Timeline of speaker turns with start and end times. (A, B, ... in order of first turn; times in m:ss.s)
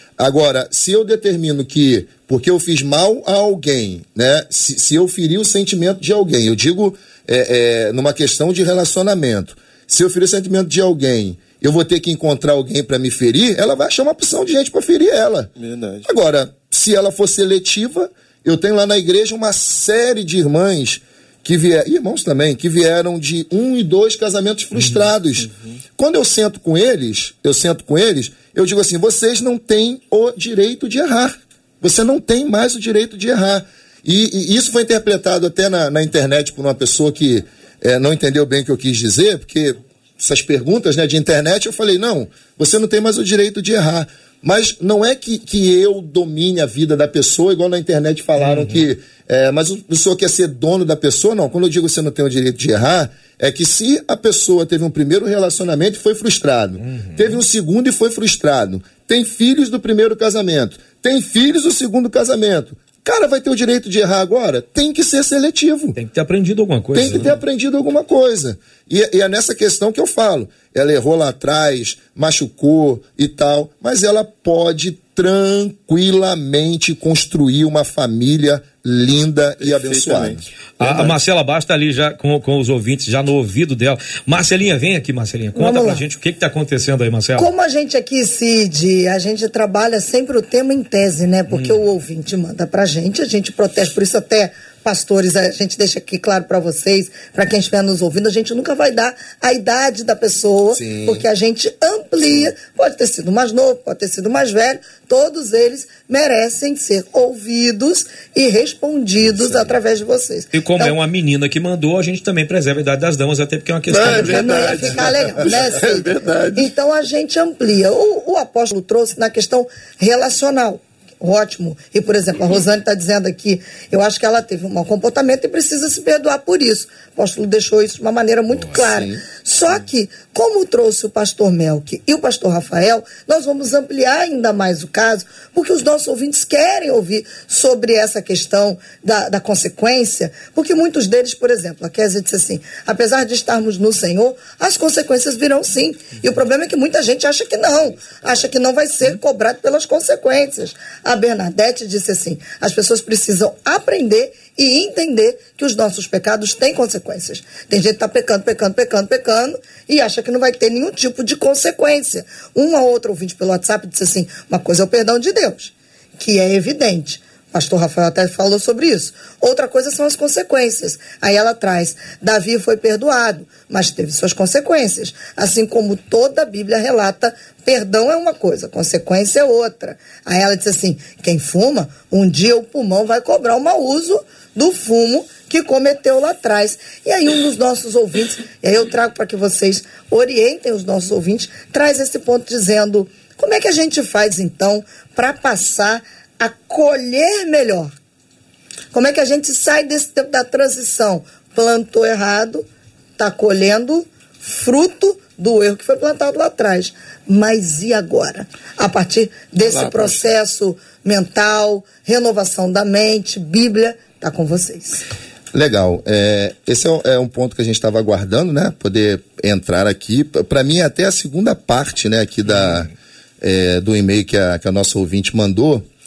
0:00.2-0:15.5 A
0:15.6-0:16.1 B
0:16.0-1:06.0 A
0:24.8-0:25.1 C
0:25.4-0:25.8 B
0:48.4-0:48.8 C
0:56.8-0:57.4 C
1:06.0-1:07.4 C
1:06.9-1:20.4 A
1:19.6-1:21.2 B
1:20.8-1:27.5 C
1:25.5-1:26.0 D
1:27.4-1:50.9 D
1:31.5-1:31.8 C
1:40.7-1:41.2 A
1:49.2-1:49.8 A
1:50.5-1:54.9 C
1:53.9-1:56.7 B
1:54.0-3:17.9 D
2:08.8-2:09.2 A
3:18.9-3:22.6 D
3:23.2-3:35.0 D
3:29.6-3:30.2 B
3:35.5-3:42.9 A
3:42.6-3:42.9 C
3:43.4-3:45.8 A